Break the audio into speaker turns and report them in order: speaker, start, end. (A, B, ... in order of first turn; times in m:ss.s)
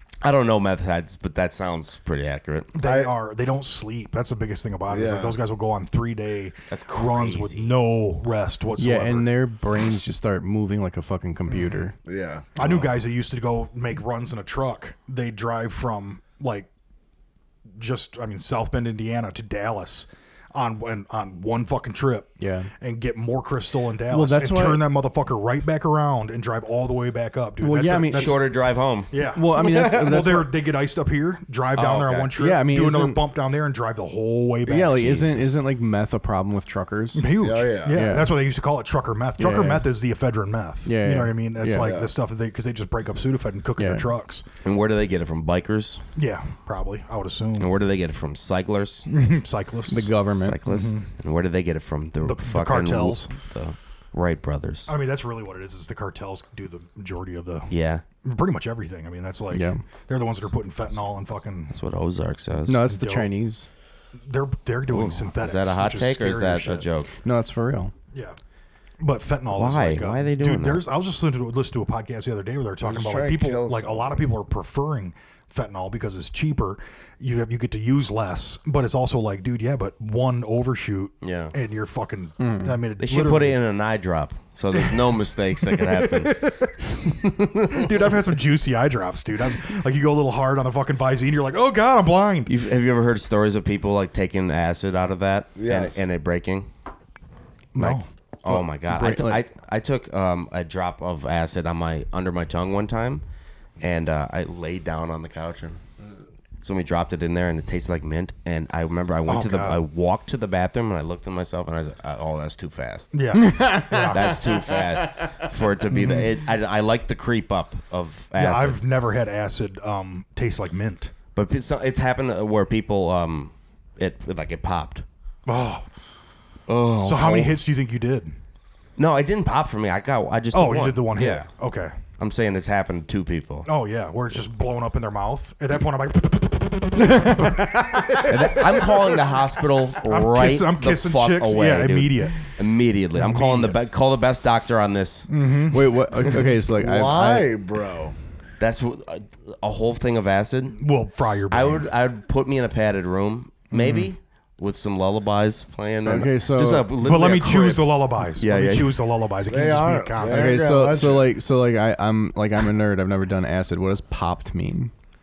0:00.2-0:02.7 A
0:02.7-0:09.3 B
0:02.8-0:03.1 C
0:04.9-0:05.4 C
0:06.7-0:07.7 A
0:08.8-0:12.0 D
0:11.5-0:11.9 B
0:12.0-0:12.9 C
0:12.6-0:16.7 B
0:17.8-0:28.5 B
0:22.4-0:22.7 D
0:24.1-0:24.9 D
0:27.6-0:28.4 D
0:28.1-0:29.1 A
0:29.1-0:35.6 B
0:29.3-0:30.5 D
0:31.7-0:32.3 A
0:32.4-0:33.2 D
0:34.7-0:38.4 D
0:37.1-0:44.5 B
0:37.4-0:38.0 C
0:39.4-0:39.9 D
0:40.8-0:41.9 D
0:41.8-0:42.1 C
0:43.8-0:44.1 D
0:44.6-0:46.0 A
0:46.2-0:47.7 B
0:47.6-0:49.1 A
0:49.1-0:50.1 B
0:49.9-0:50.6 D
0:50.4-0:54.9 A
0:50.6-0:51.1 B
0:52.2-0:53.3 B
0:54.9-1:01.8 B
0:57.7-0:58.0 A
0:59.5-0:59.8 D
1:01.7-1:02.8 A
1:02.7-1:03.7 D
1:02.8-1:03.3 B
1:04.3-1:06.9 B
1:04.9-1:07.1 A
1:07.2-1:07.9 D
1:08.1-1:08.4 B
1:09.0-1:23.6 B
1:09.5-1:10.8 A
1:12.8-1:14.3 C
1:21.2-1:21.5 A
1:22.4-1:22.8 D
1:23.0-1:26.5 A
1:24.7-1:25.0 B
1:25.6-1:32.5 B
1:27.2-1:28.0 A
1:32.5-1:36.7 A
1:35.6-1:36.0 C
1:37.7-1:38.1 B
1:37.8-1:43.2 A
1:38.5-1:39.4 D
1:43.8-1:45.8 A
1:46.6-1:53.1 A
1:49.3-1:49.8 B
1:53.1-1:54.4 B
1:53.3-1:54.8 D
1:54.1-1:58.8 A
1:56.0-1:56.2 B
1:58.4-2:01.1 B
2:01.4-2:05.0 A
2:05.5-2:05.9 B
2:06.7-2:07.6 A
2:07.0-2:08.4 B
2:09.0-2:11.5 A
2:10.5-2:12.0 B
2:12.2-2:13.7 A
2:13.7-2:19.4 B
2:17.0-2:17.4 D
2:18.3-2:25.3 A
2:20.0-2:22.5 B
2:23.2-2:23.8 B
2:25.3-2:26.0 B
2:25.7-2:27.5 D
2:26.7-2:28.2 C
2:28.6-2:30.8 A
2:30.8-2:31.9 B
2:31.4-2:39.2 A
2:33.8-2:34.0 D
2:36.0-2:36.9 D
2:37.0-2:40.7 B
2:39.5-2:41.3 C
2:40.2-2:44.9 D